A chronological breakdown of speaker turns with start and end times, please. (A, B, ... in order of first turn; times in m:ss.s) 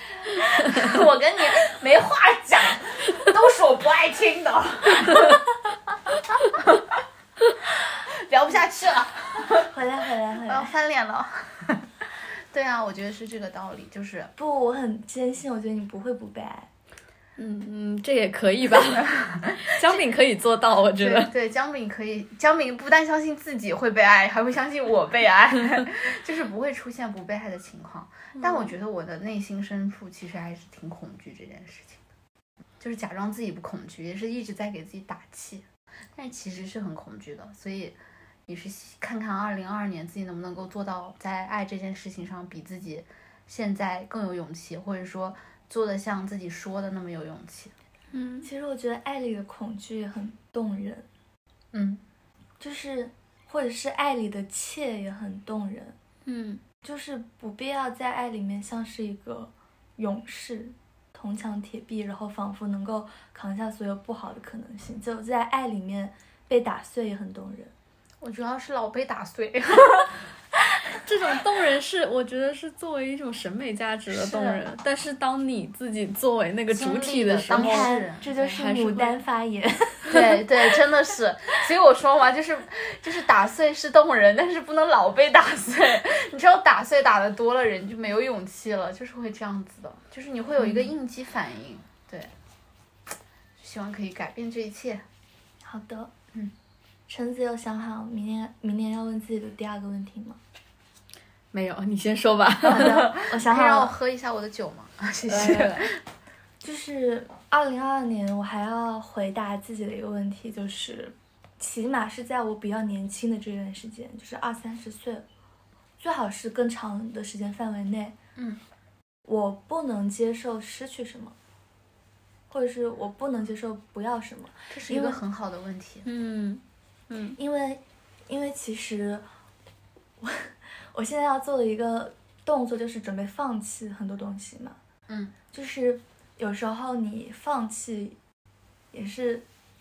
0:00.3-0:05.4 A
0:07.8-0:09.7 A
0:09.7-0:10.7 B
0:10.4-0:11.9 A
0:12.5-0:14.3 A
0:14.4-0:16.7 B
0:17.4-0:21.3 C
0:19.3-0:20.0 A
0:21.0-0:32.0 A
0:28.4-0:28.7 C
0:32.8-0:47.7 A
0:48.1-0:48.5 C
0:48.4-0:51.1 B
0:51.7-0:52.0 A
0:52.6-0:56.0 B
0:56.3-0:56.6 C
0:56.8-1:07.7 B
1:08.2-1:10.2 A
1:11.0-1:19.2 C
1:14.1-1:14.6 A
1:16.7-1:18.6 A
1:17.5-1:20.8 B
1:20.1-1:32.3 A
1:30.6-1:30.9 B
1:33.6-1:35.0 A
1:35.6-1:36.1 B
1:37.1-1:40.4 B
1:41.5-1:43.0 C
1:42.7-1:44.0 B
1:42.7-1:46.0 A
1:45.3-1:45.8 C
1:46.6-1:55.3 B
1:56.0-1:58.2 B
1:58.4-1:58.6 A
1:59.3-2:01.4 B
2:02.5-2:05.2 B
2:04.7-2:06.1 A
2:06.0-2:07.4 C
2:07.4-2:09.2 B
2:10.2-2:14.8 B
2:15.1-2:15.4 A
2:15.5-2:18.2 B
2:18.9-2:19.4 B